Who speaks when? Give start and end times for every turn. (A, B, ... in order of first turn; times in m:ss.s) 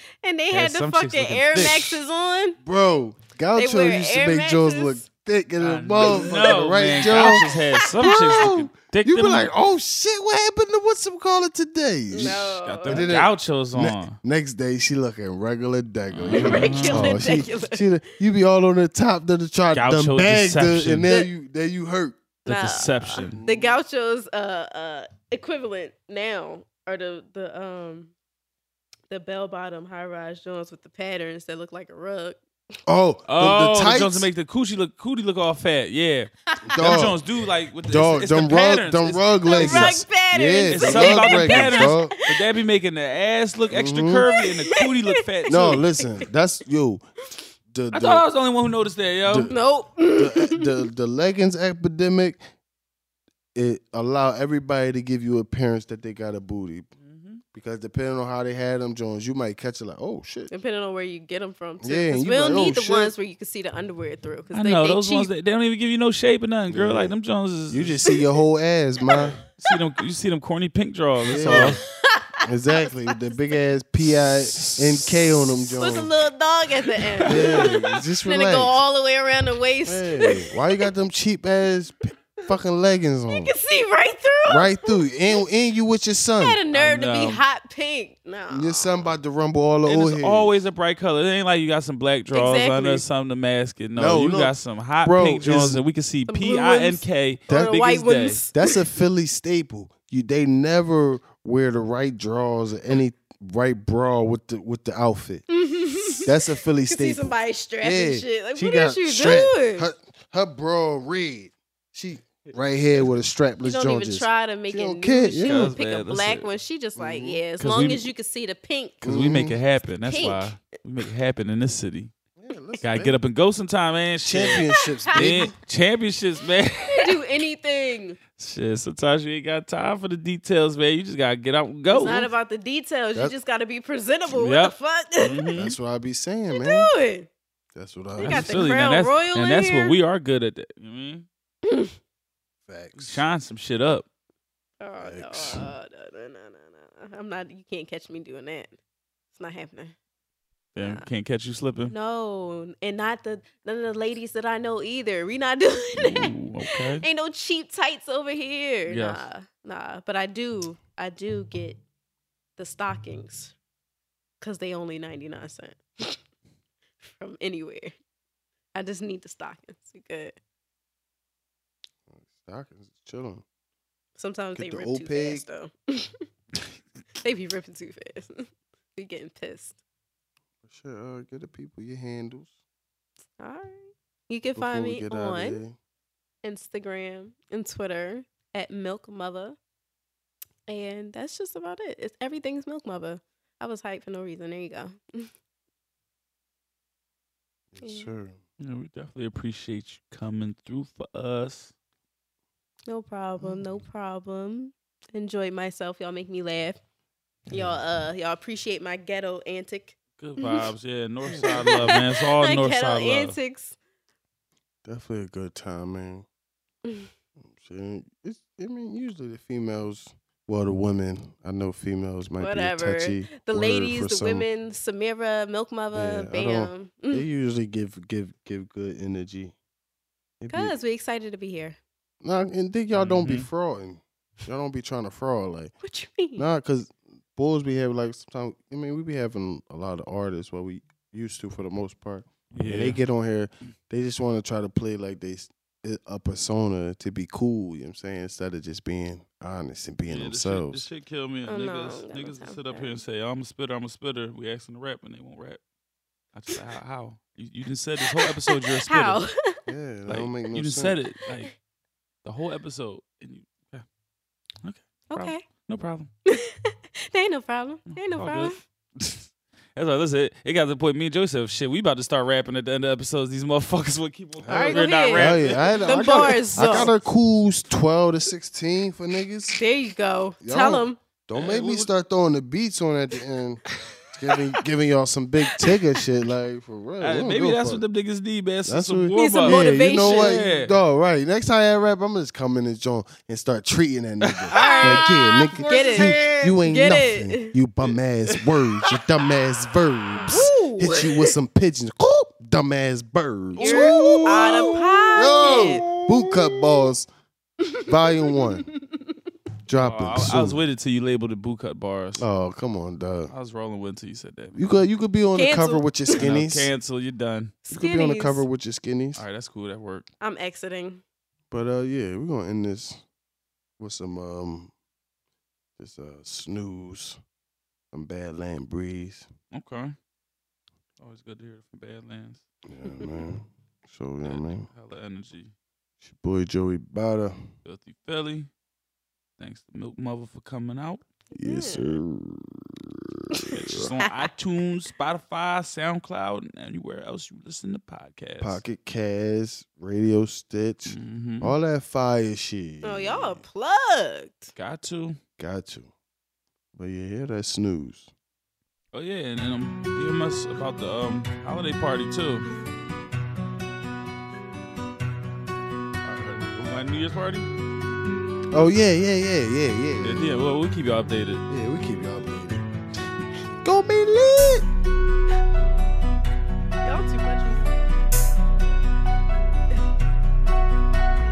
0:00.2-0:02.6 A
0:00.5-0:02.0 B
0:02.6-0:22.2 C
0:03.6-0:05.0 A
0:05.6-0:09.5 B
0:06.0-0:06.6 A
0:07.1-0:07.4 A
0:08.1-0:08.4 A
0:12.1-0:13.1 A
0:12.3-0:14.2 B
0:16.1-0:17.2 B
0:16.3-0:17.9 A
0:19.7-0:21.1 B
0:22.4-0:23.4 B
0:22.4-0:28.1 A
0:23.1-0:23.8 C
0:29.1-0:32.4 A
0:32.9-0:34.3 C
0:33.2-0:40.0 B
0:36.6-0:37.2 C
0:37.8-0:42.2 C
0:39.5-0:42.4 A
0:40.7-0:45.8 B
0:43.7-0:44.2 C
0:44.3-0:46.0 A
0:45.5-0:47.0 C
0:47.7-0:48.2 C
0:47.9-0:49.5 B
0:49.3-0:49.6 C
0:49.5-0:50.8 A
0:50.1-0:52.4 C
0:53.5-0:56.9 C
0:57.0-0:57.4 B
0:57.5-1:00.5 C
1:00.5-1:05.3 A
1:01.8-1:03.1 C
1:04.5-1:08.0 B
1:06.7-1:07.1 C
1:07.7-1:09.4 C
1:09.1-1:09.3 A
1:09.6-1:11.8 B
1:11.3-1:11.8 C
1:11.3-1:13.4 A
1:12.4-1:16.1 C
1:15.0-1:20.9 A
1:17.2-1:18.8 C
1:19.8-1:23.5 C
1:23.3-1:25.0 A
1:24.5-1:26.6 C
1:26.4-1:29.1 A
1:26.7-1:27.4 B
1:28.5-1:30.5 C
1:29.8-1:38.4 B
1:32.3-1:33.0 A
1:34.0-1:35.8 C
1:36.3-1:38.8 A
1:37.5-1:37.8 C
1:38.5-1:45.4 C
1:45.5-1:49.9 A
1:46.2-1:55.7 C
1:53.6-1:59.1 A
1:55.4-1:56.5 B
1:57.0-1:57.4 C
1:57.6-1:58.1 B
1:59.0-1:59.6 C
1:59.0-2:02.1 B
2:00.0-2:00.7 A
2:02.4-2:03.2 C
2:02.8-2:07.1 B
2:04.2-2:05.5 C
2:04.7-2:05.4 A
2:06.9-2:08.2 A
2:08.4-2:12.3 B
2:11.9-2:15.4 A
2:14.3-2:15.8 B
2:15.6-2:16.9 C
2:16.5-2:17.3 A
2:17.7-2:18.6 C
2:18.2-2:20.0 A
2:18.2-2:21.2 B
2:21.6-2:21.9 A
2:22.6-2:23.2 C
2:23.0-2:24.0 B
2:24.8-2:28.7 A
2:25.0-2:25.7 C
2:29.3-2:29.9 A
2:30.7-2:31.9 B
2:30.8-2:31.0 A
2:31.9-2:41.8 A
2:36.0-2:37.0 B
2:38.8-2:39.2 B
2:42.6-2:43.5 A
2:44.4-2:46.2 A
2:47.0-2:47.9 A
2:48.7-2:50.4 A
2:52.1-2:53.4 C
2:54.2-2:56.2 A
2:54.5-2:55.4 C
2:57.2-2:59.8 A
3:00.6-3:02.5 C
3:03.4-3:05.6 A
3:04.5-3:05.8 C
3:06.4-3:09.6 A
3:10.7-3:15.3 A
3:17.7-3:18.4 C
3:17.8-3:18.1 A
3:18.6-3:21.7 B
3:22.9-3:26.8 A
3:27.5-3:30.7 A
3:27.5-3:27.8 C
3:30.2-3:33.4 B
3:31.3-3:31.9 C
3:31.4-3:33.8 A
3:34.8-3:36.2 C
3:37.4-3:44.4 C
3:42.4-3:47.2 A
3:45.9-3:49.5 C
3:50.4-3:50.7 C
3:50.5-3:51.8 A
3:52.2-3:55.7 C
3:52.9-3:53.5 B
3:55.8-3:56.4 A
3:56.4-4:10.8 C
4:02.5-4:03.0 B
4:10.1-4:15.6 B
4:11.4-4:13.0 A
4:16.3-4:19.2 B
4:18.2-4:19.6 A
4:19.7-4:21.0 C
4:20.1-4:21.5 B
4:22.2-4:23.8 B
4:24.6-4:26.1 B
4:25.1-4:25.4 A
4:26.2-4:28.6 A
4:27.9-4:36.9 B
4:34.4-4:39.6 C
4:34.5-4:36.9 A
4:39.6-4:41.0 A
4:40.4-4:43.6 C
4:41.3-4:41.9 B
4:44.1-4:47.8 C
4:47.0-4:50.8 B
4:48.6-5:07.1 C
4:49.2-4:50.4 A
4:54.2-4:56.5 B
4:54.5-4:57.5 A
4:57.9-4:59.0 B
5:00.2-5:01.3 A
5:03.6-5:06.1 B
5:03.6-5:05.9 A
5:07.6-5:09.0 A
5:07.8-5:08.7 C
5:09.7-5:10.6 C
5:09.8-5:12.2 B
5:12.2-5:13.3 C
5:13.3-5:14.6 B
5:14.5-5:16.7 C
5:15.3-5:16.3 A
5:16.1-5:17.6 B
5:17.6-5:18.4 A
5:17.7-5:19.2 C
5:19.1-5:20.1 B
5:20.2-5:21.0 A
5:21.5-5:23.0 C
5:23.8-5:24.7 C
5:25.8-5:27.2 C
5:27.9-5:29.3 C
5:29.5-5:29.9 B
5:31.0-5:32.4 B
5:32.7-5:34.7 C
5:34.2-5:35.5 B
5:36.0-5:37.4 C
5:37.6-5:38.5 B
5:39.4-5:41.0 B
5:41.3-5:43.9 C
5:41.4-5:42.0 A
5:43.5-5:48.6 B
5:48.4-5:53.4 C
5:50.9-5:51.5 B
5:52.8-5:54.5 A
5:54.6-5:55.2 B
5:55.4-5:55.9 C
5:56.7-5:58.1 C
5:58.9-6:02.5 B
6:06.0-6:07.5 B
6:08.5-6:10.3 C
6:10.0-6:11.4 B
6:11.5-6:12.6 C
6:13.6-6:14.6 C
6:16.8-6:17.6 A